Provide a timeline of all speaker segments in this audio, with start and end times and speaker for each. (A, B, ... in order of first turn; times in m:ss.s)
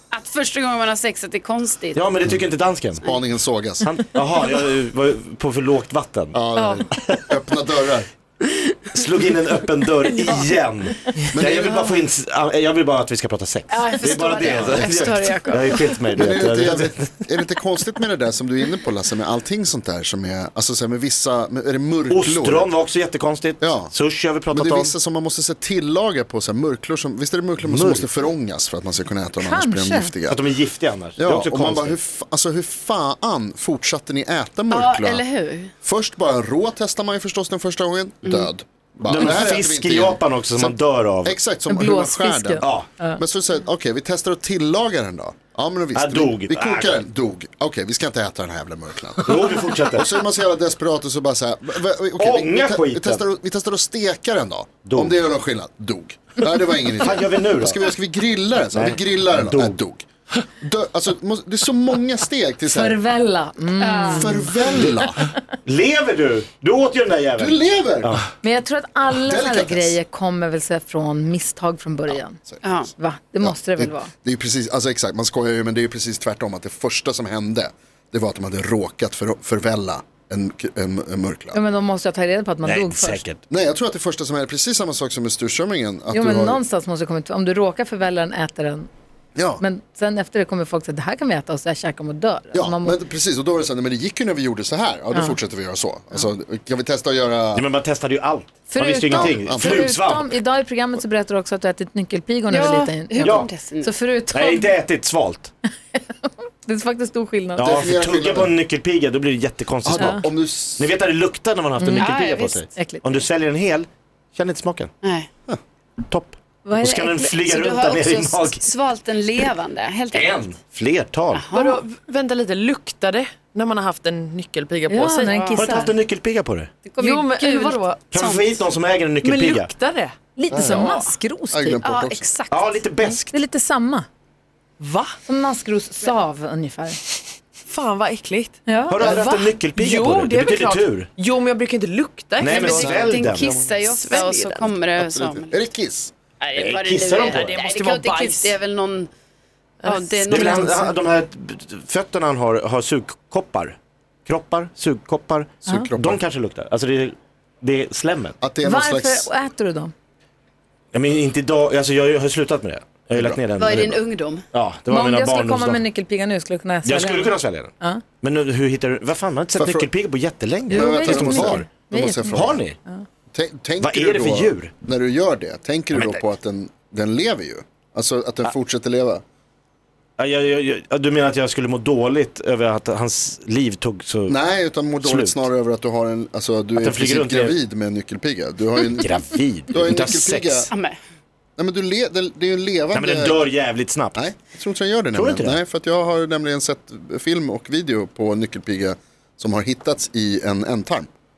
0:00.1-0:02.1 A
0:02.0-0:03.0 B
0:03.0-0:03.8 C
0:03.8-0:06.4 B
0:06.3-0:08.1 C
0:06.6-0:06.9 A
0:08.9-0:17.2 B
0:11.3-0:11.9 C
0:13.8-0:14.7 D
0:13.9-0:15.9 A
0:14.5-0:15.2 C
0:16.2-0:22.7 C
0:22.1-0:24.9 B
0:23.6-0:23.9 C
0:24.5-0:30.5 C
0:27.6-0:28.3 B
0:29.4-0:30.1 D
0:30.3-0:32.0 B
0:31.2-0:35.3 C
0:34.7-0:35.7 A
0:35.8-1:00.0 C
0:39.1-0:41.4 B
0:41.7-0:43.2 D
0:42.6-0:42.9 B
0:46.0-0:47.0 B
0:49.3-0:50.1 B
0:52.2-0:53.2 B
0:54.8-0:55.2 B
0:57.0-0:57.8 B
0:58.7-0:59.8 B
1:00.6-1:03.0 C
1:02.6-1:04.6 D
1:03.8-1:04.4 A
1:04.1-1:05.3 C
1:04.7-1:05.1 B
1:05.6-1:08.3 B
1:07.4-1:08.2 C
1:08.4-1:12.4 D
1:09.1-1:10.0 C
1:12.1-1:12.6 C
1:12.6-1:12.9 A
1:12.9-1:14.1 D
1:13.4-1:21.6 C
1:21.5-1:23.2 D
1:22.6-1:23.4 B
1:23.5-1:26.6 C
1:26.1-1:28.9 D
1:29.4-1:29.6 C
1:29.6-1:33.0 D
1:32.5-1:37.7 C
1:37.5-1:40.4 B
1:38.7-1:44.7 D
1:39.1-1:39.8 C
1:42.5-1:43.9 A
1:43.2-1:43.5 B
1:44.3-1:45.5 B
1:45.9-1:47.7 D
1:47.6-1:54.9 B
1:47.6-1:48.5 C
1:49.8-1:50.9 C
1:49.9-1:50.2 D
1:51.8-1:53.1 D
1:51.9-1:52.6 A
1:55.0-1:55.3 A
1:56.1-1:58.7 B
1:56.6-1:57.4 D
1:57.5-2:00.5 A
2:00.1-2:01.4 B
2:01.3-2:01.8 A
2:01.5-2:05.3 E
2:04.9-2:05.9 D
2:05.1-2:05.8 A
2:05.6-2:06.7 B
2:06.8-2:08.6 A
2:07.0-2:08.2 E
2:08.1-2:09.7 B
2:09.2-2:10.2 E
2:10.4-2:11.8 D
2:10.5-2:10.9 C
2:10.6-2:11.1 A
2:11.5-2:12.3 C
2:11.8-2:12.8 A
2:12.5-2:13.3 B
2:13.3-2:14.1 D
2:14.8-2:15.2 E
2:15.2-2:17.0 D
2:17.7-2:23.2 E
2:18.7-2:19.1 D
2:18.9-2:21.1 B
2:22.4-2:23.5 B
2:22.4-2:25.6 A
2:22.7-2:23.8 C
2:23.8-2:24.8 E
2:25.0-2:26.1 C
2:26.4-2:29.1 A
2:26.6-2:27.6 B
2:27.1-2:28.6 E
2:29.8-2:30.8 E
2:29.8-2:30.9 A
2:30.3-2:38.4 B
2:35.7-2:35.9 D
2:35.7-2:36.2 C
2:38.4-2:39.3 C
2:38.6-2:39.9 D
2:40.9-2:44.0 B
2:43.1-2:43.9 C
2:43.6-2:44.4 A
2:44.5-2:45.8 B
2:44.9-2:48.0 D
2:46.8-2:51.7 B
2:49.6-2:49.9 C
2:50.7-2:52.6 C
2:50.7-2:53.0 D
2:52.3-2:52.8 B
2:53.3-2:59.2 C
2:53.8-2:54.7 B
2:55.9-2:56.2 B
3:00.2-3:05.5 B
3:04.3-3:10.7 C
3:06.8-3:07.6 B
3:09.0-3:10.7 B
3:10.7-3:11.0 A
3:11.6-3:13.5 C
3:12.9-3:14.2 B
3:14.2-3:21.1 C
3:15.1-3:15.6 B